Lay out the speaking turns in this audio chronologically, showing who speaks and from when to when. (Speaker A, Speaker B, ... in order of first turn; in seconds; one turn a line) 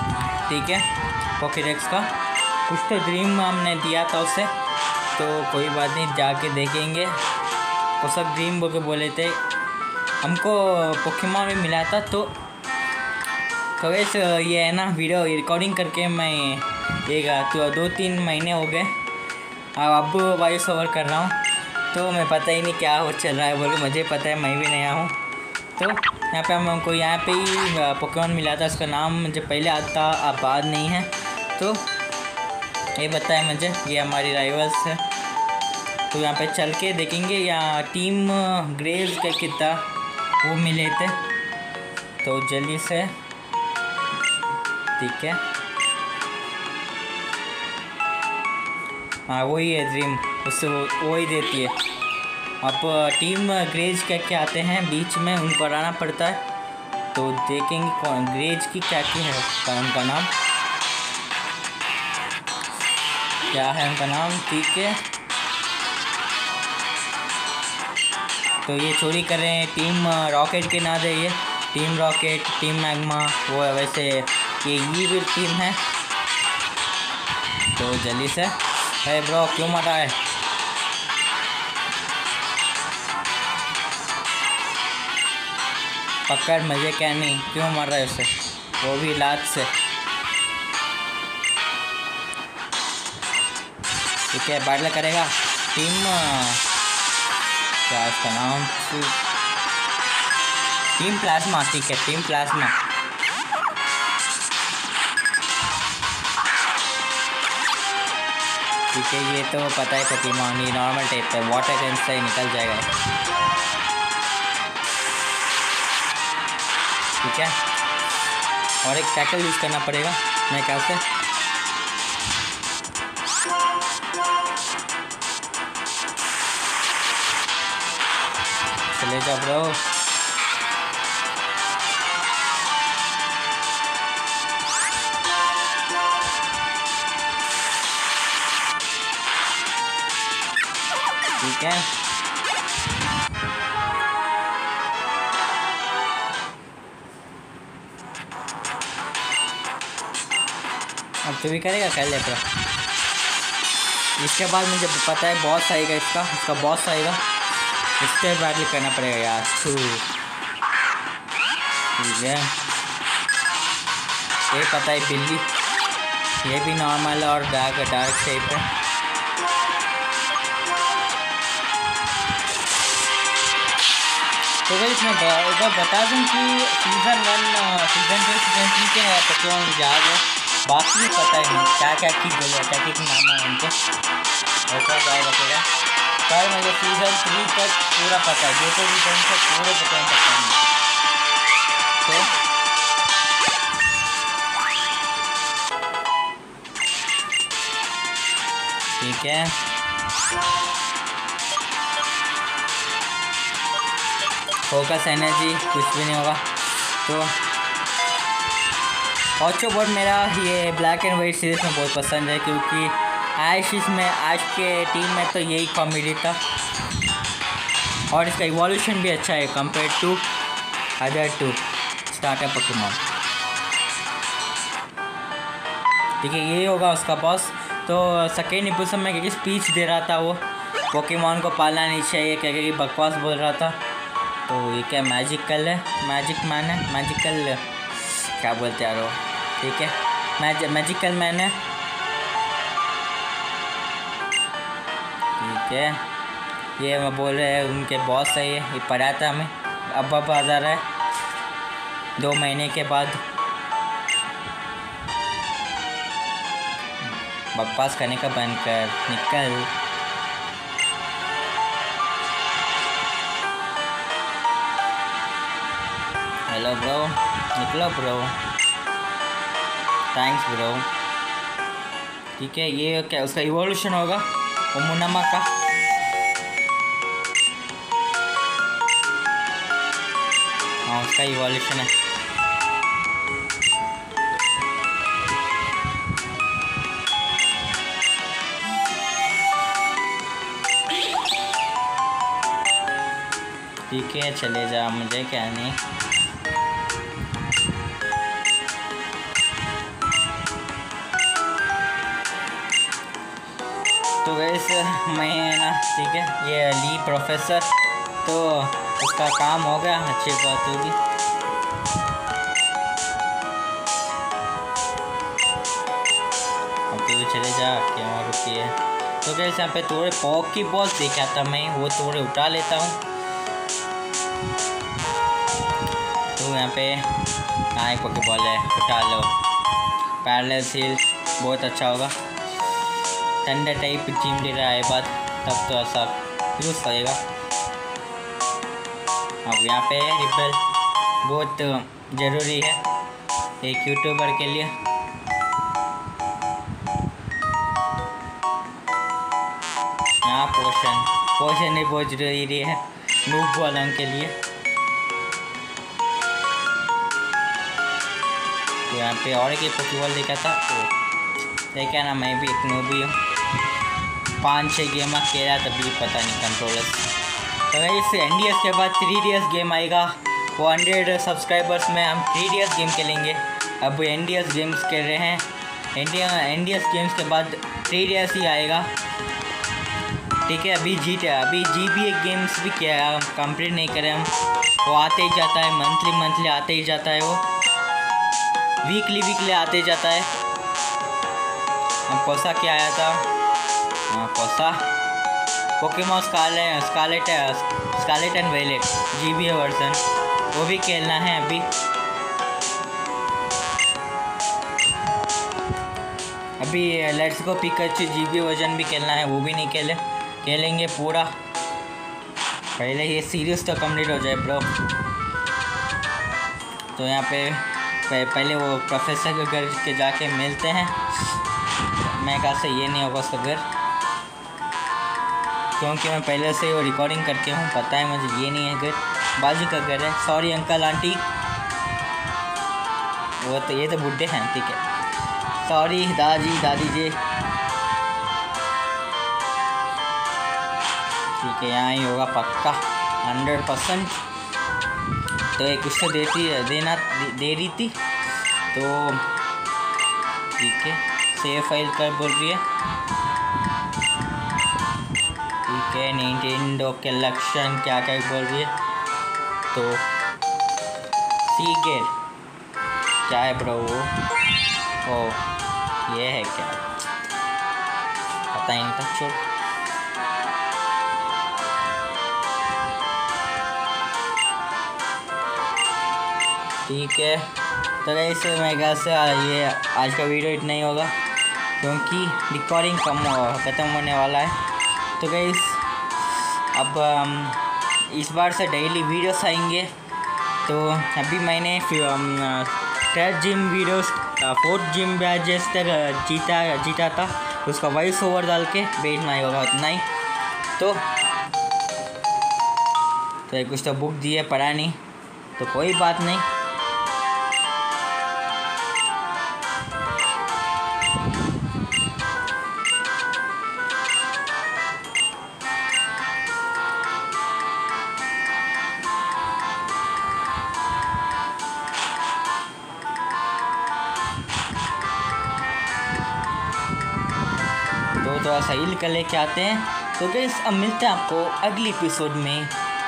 Speaker A: 0.4-2.1
Speaker A: 2.6-4.5
Speaker A: 5.1-7.2
Speaker A: 8.0-9.4
Speaker A: 10.2-12.3
Speaker A: 13.8-19.0
Speaker A: 19.8-21.4
Speaker A: 21.9-25.2
Speaker A: 25.8-31.8
Speaker A: 33.0-35.0
Speaker A: 36.1-39.9
Speaker A: 40.4-41.2
Speaker A: 42.2-43.1
Speaker A: 45.0-45.4
Speaker A: 49.3-51.8
Speaker A: 52.6-56.4
Speaker A: 57.1-60.3
Speaker A: 63.5-65.0
Speaker A: 68.6-75.8
Speaker A: 77.7-80.2
Speaker A: 86.3-89.7
Speaker A: 94.3-96.6
Speaker A: 97.8-99.2
Speaker A: 101.0-102.8
Speaker A: 108.9-112.9
Speaker A: 117.2-117.5
Speaker A: 118.8-121.0
Speaker A: 128.9-129.8
Speaker A: 141.4-141.9
Speaker A: 151.2-152.4
Speaker A: 154.2-157.2
Speaker A: 158.0-160.0
Speaker A: 161.9-162.5
Speaker A: 164.5-165.5
Speaker A: 166.4-168.7
Speaker A: 174.7-183.8
Speaker A: 184.7-185.7
Speaker A: 186.3-190.6
Speaker A: 192.0-192.3
Speaker A: 199.0-199.5
Speaker A: 204.7-206.4
Speaker A: 207.0-207.3
Speaker A: 209.4-216.4
Speaker A: 218.1-220.2
Speaker A: 221.0-223.0
Speaker A: 226.2-233.8
Speaker A: 234.5-241.6
Speaker A: 245.4-246.0
Speaker A: 246.8-250.8
Speaker A: 252.2-253.2
Speaker A: 257.5-259.7
Speaker A: 266.5-268.4
Speaker A: 270.1-270.9
Speaker A: 272.4-275.5
Speaker A: 280.9-281.9
Speaker A: 293.9-295.8
Speaker A: 304.2-311.0
Speaker A: 316.9-323.0
Speaker A: 326.4-327.2
Speaker A: 327.7-329.3
Speaker A: 330.2-332.1
Speaker A: 333.4-337.2
Speaker A: 339.4-340.6
Speaker A: 341.2-342.8
Speaker A: 343.6-344.7
Speaker A: 350.2-354.4
Speaker A: 358.9-360.9
Speaker A: 361.7-363.2
Speaker A: 364.4-367.1
Speaker A: 367.7-378.9
Speaker A: 380.4-384.3
Speaker A: 384.8-387.4
Speaker A: 388.8-390.3
Speaker A: 392.1-393.2
Speaker A: 394.1-394.8
Speaker A: 395.8-401.7
Speaker A: 406.6-411.3
Speaker A: 412.8-414.8
Speaker A: 416.9-421.4
Speaker A: 421.9-423.6
Speaker A: 425.8-431.3
Speaker A: 433.4-434.8
Speaker A: 435.6-437.2
Speaker A: 441.4-444.1
Speaker A: 445.5-448.0
Speaker A: 448.7-449.3
Speaker A: 450.5-452.6
Speaker A: 455.6-458.7
Speaker A: 459.7-460.0
Speaker A: 461.4-462.1
Speaker A: 463.2-464.1
Speaker A: 465.0-465.4
Speaker A: 466.1-466.9
Speaker A: 468.5-469.4
Speaker A: 476.8-477.5
Speaker A: 478.0-481.1
Speaker A: 481.8-484.6
Speaker A: 485.2-489.9
Speaker A: 490.6-500.0
Speaker A: 500.8-501.0
Speaker A: 503.5-505.0
Speaker A: 505.6-506.4
Speaker A: 528.2-532.7